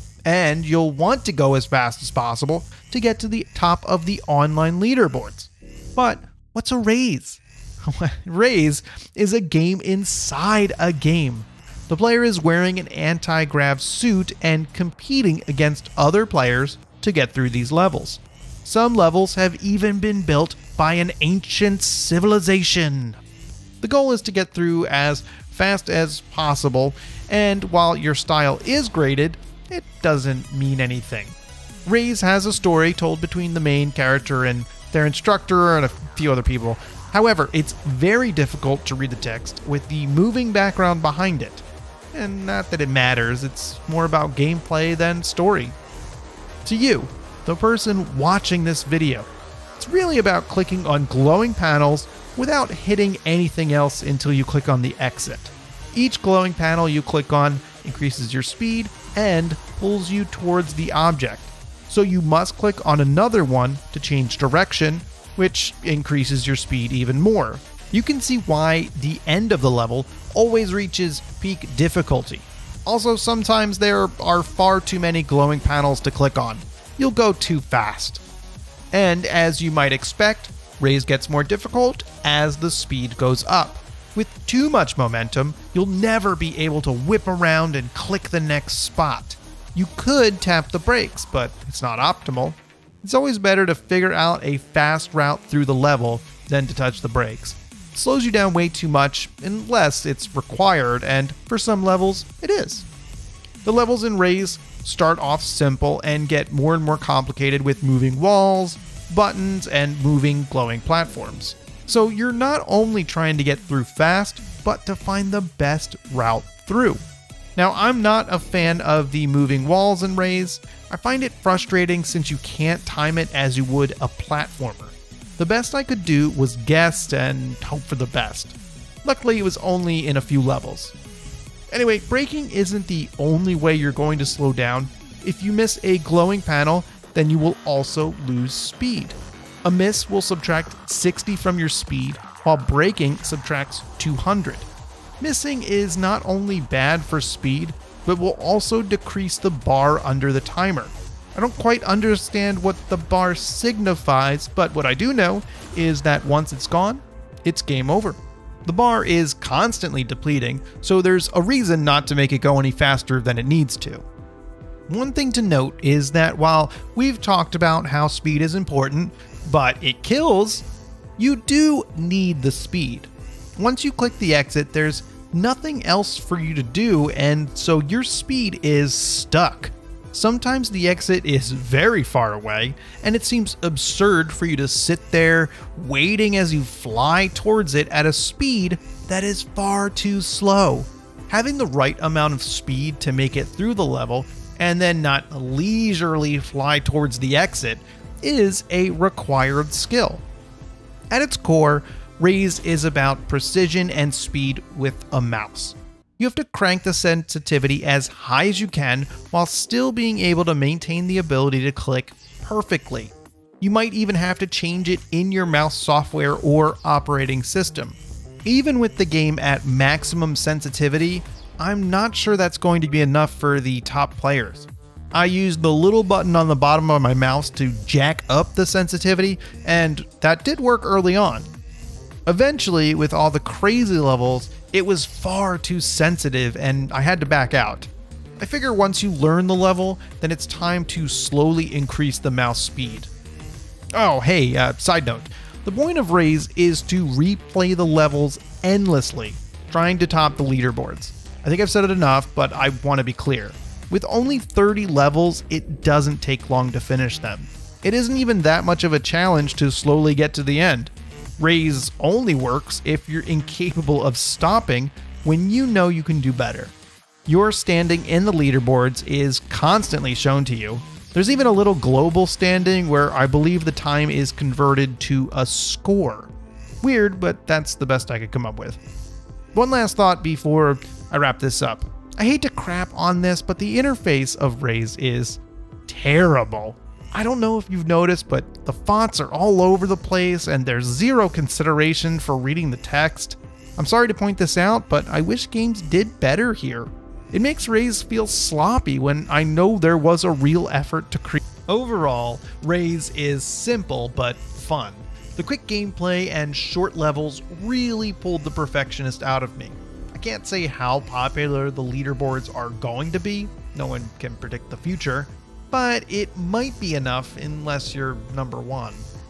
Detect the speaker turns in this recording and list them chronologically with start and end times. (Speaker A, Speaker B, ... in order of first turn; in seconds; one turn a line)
Speaker A: 0.3-23.2
Speaker A: 23.8-45.8
Speaker A: 46.6-78.2
Speaker A: 78.9-102.9
Speaker A: 103.7-117.0
Speaker A: 117.6-130.9
Speaker A: 131.7-144.7
Speaker A: 145.2-164.1
Speaker A: 164.9-170.7
Speaker A: 171.2-200.2
Speaker A: 201.1-231.5
Speaker A: 232.3-243.1
Speaker A: 244.0-266.7
Speaker A: 267.3-278.8
Speaker A: 279.5-319.1